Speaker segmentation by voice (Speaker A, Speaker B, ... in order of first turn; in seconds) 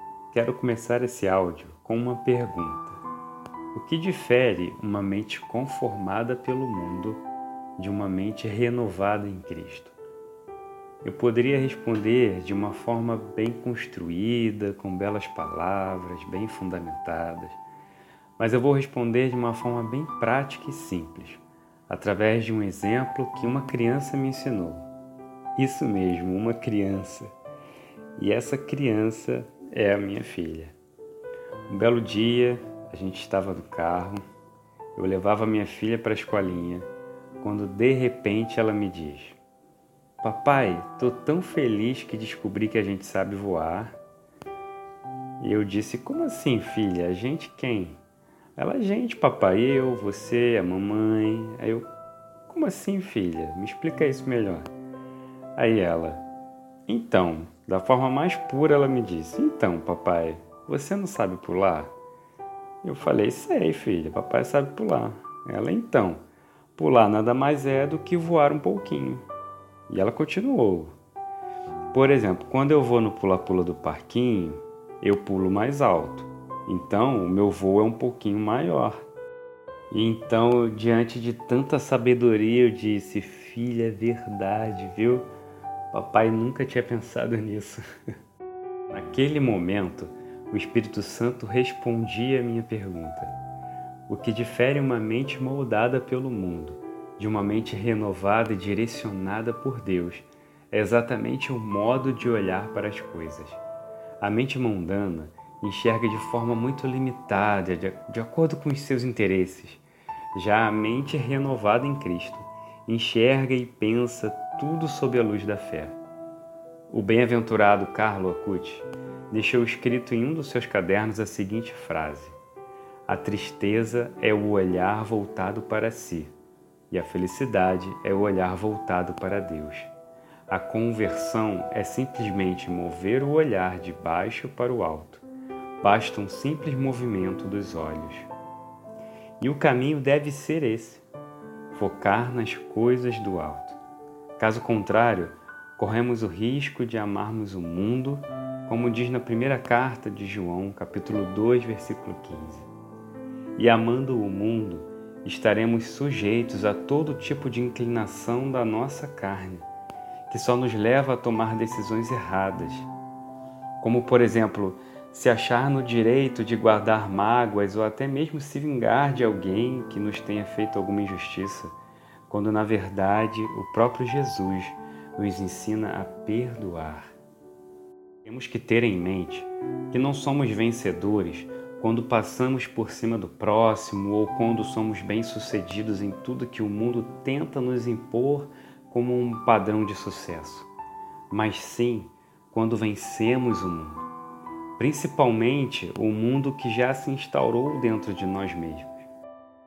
Speaker A: 0.3-3.0, 3.7-7.2, 7.8-10.0, 11.0-17.6, 18.4-24.9, 25.6-27.3, 28.2-30.8, 31.7-34.2, 35.0-36.9, 37.4-39.4, 40.2-44.0, 45.4-48.0, 48.6-51.9, 52.5-54.7, 55.6-56.2, 56.9-61.9, 62.8-66.2, 66.8-69.2, 69.9-70.9, 71.9-79.0, 79.9-85.3, 85.9-87.8, 88.9-93.3, 94.1-103.6, 104.2-109.8, 110.3-116.0, 116.9-122.4, 123.1-126.3, 126.9-129.9, 130.5-135.2, 135.8-138.3, 139.4-141.0, 141.7-143.8, 144.4-152.7, 153.6-159.7, 160.3-162.9, 163.8-171.8, 172.3-177.1, 178.2-190.7, 191.3-194.1, 194.8-199.0